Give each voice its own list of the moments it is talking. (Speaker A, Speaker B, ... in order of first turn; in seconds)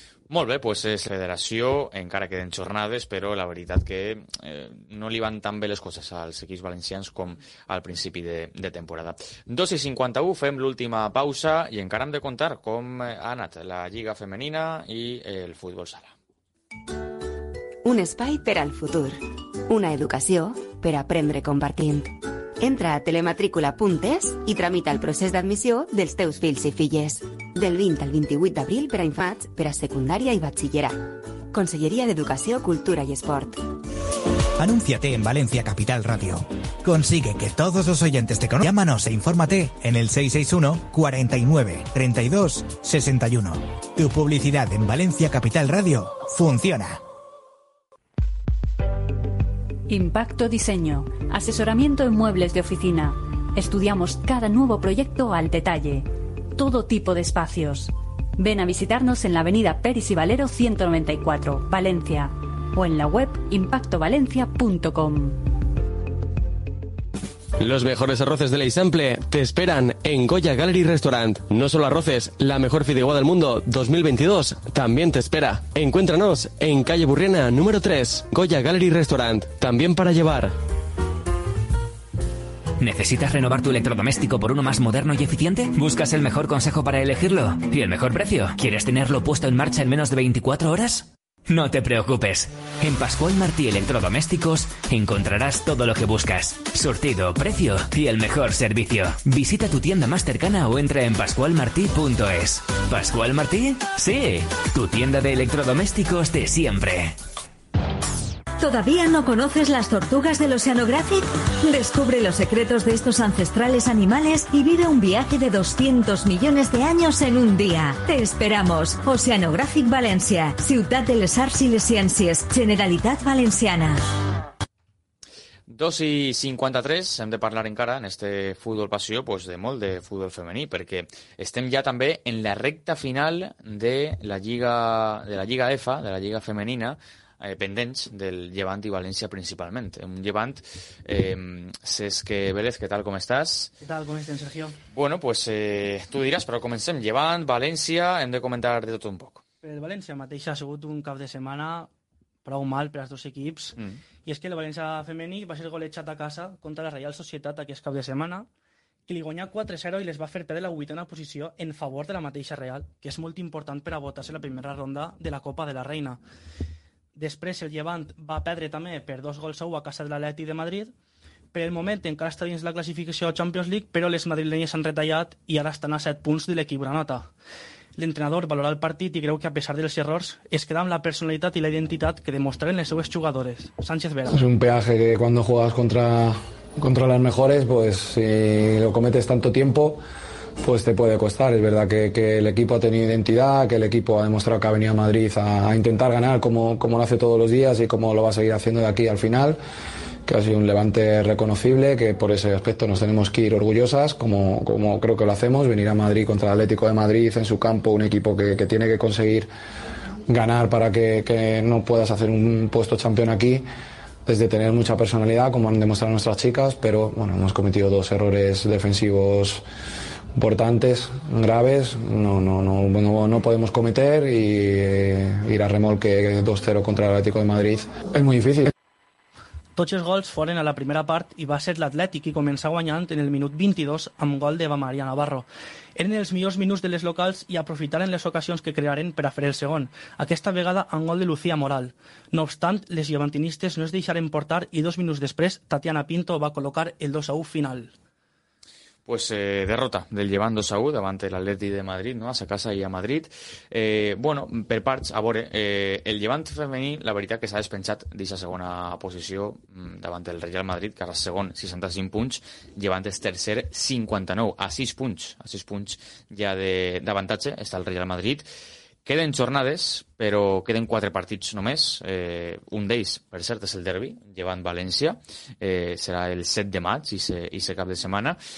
Speaker A: 0.3-16.1, 125.7-143.7, 144.9-149.4, 249.1-268.5, 269.1-278.4
Speaker B: 17.8-33.7
Speaker C: 34.6-47.0
Speaker D: 49.9-65.4
Speaker E: 67.6-80.5
Speaker F: 82.8-107.2
Speaker G: 108.6-124.0
Speaker H: 143.8-144.8, 149.6-151.9, 152.4-158.5, 159.1-166.2, 167.2-170.9, 171.5-177.3, 178.0-184.4, 229.8-247.9
Speaker I: 184.3-190.0, 190.6-199.6, 200.3-209.5, 210.3-213.6, 214.3-219.6, 220.3-228.7